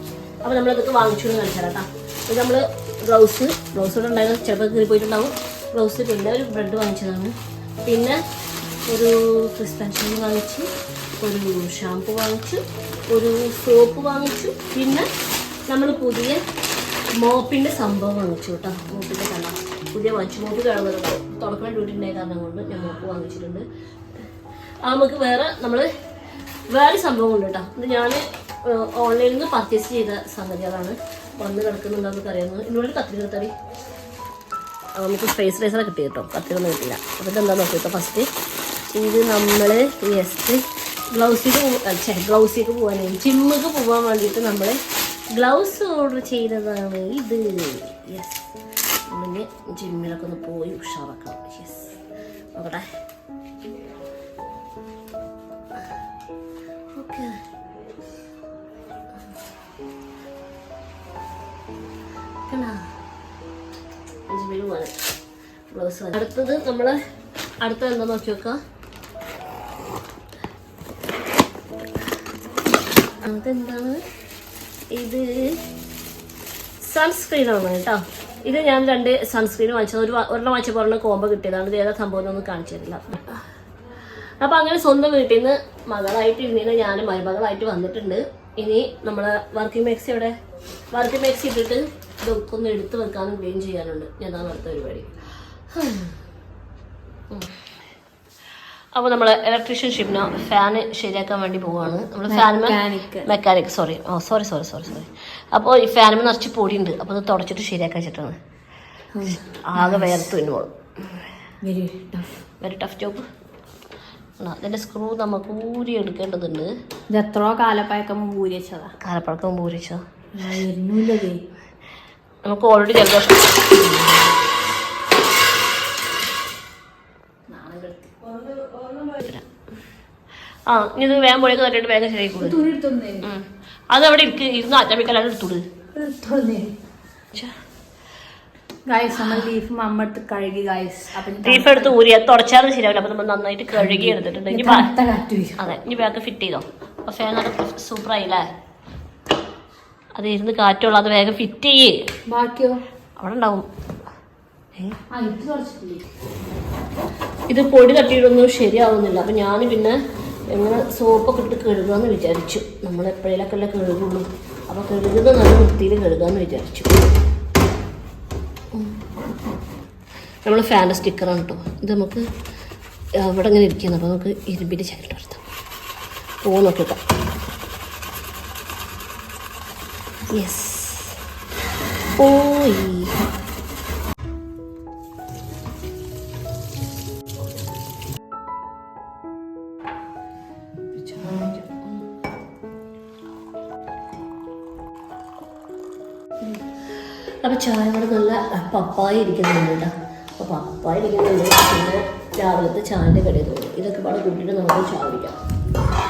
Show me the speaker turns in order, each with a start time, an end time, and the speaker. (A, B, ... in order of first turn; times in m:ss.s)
0:00.4-0:07.3 A
0:07.8-0:08.2 A
0:08.9-0:10.7 A
0:11.2-0:15.1 A
0:15.7-0:16.4 A
0:17.1-0:23.6 A
0:24.8-0:25.9 A
0:26.7-0:33.5 A
0:35.0-0:38.3 A
0:38.9-0:40.6 A
0:41.1-0:44.8 A
0:45.3-0:48.5 A
0:49.1-0:52.0 A
0:52.5-0:52.9 A
0:56.9-0:57.4 A
1:02.5-1:02.8 A
1:04.3-1:05.0 A
1:05.7-1:07.0 A
1:07.6-1:08.6 A
1:13.2-1:14.0 A
1:14.9-1:15.6 A
1:16.8-1:23.4 A
1:24.4-1:30.4 A
1:30.9-1:35.1 A
1:35.7-1:36.1 A
1:38.9-1:48.4 A
1:42.3-1:43.3 B
1:49.1-1:50.3 B
1:49.4-1:50.7 A
1:51.6-1:52.4 B
1:52.6-1:53.3 A
1:54.4-1:56.7 A
1:57.1-1:58.9 B
1:59.0-2:00.0 A
2:00.3-2:01.4 B
2:02.4-2:04.3 A
2:07.5-2:09.2 B
2:10.7-2:12.6 A
2:12.4-2:13.3 B
2:13.2-2:15.6 A
2:16.0-2:16.7 B
2:18.9-2:22.0 B
2:21.4-2:24.9 A
2:23.7-2:25.6 B
2:25.6-2:28.5 A
2:30.2-2:32.0 A
2:32.3-2:32.8 B
2:33.2-2:33.6 A
2:35.1-2:36.0 B
2:37.5-2:39.9 A
2:40.5-2:47.0 A
2:48.7-2:49.0 A
2:50.4-2:52.2 A
2:53.2-2:55.4 A
2:56.4-2:57.0 A
3:00.3-3:01.2 A
3:02.2-3:03.1 A
3:10.9-3:12.0 A
3:17.4-3:25.4 A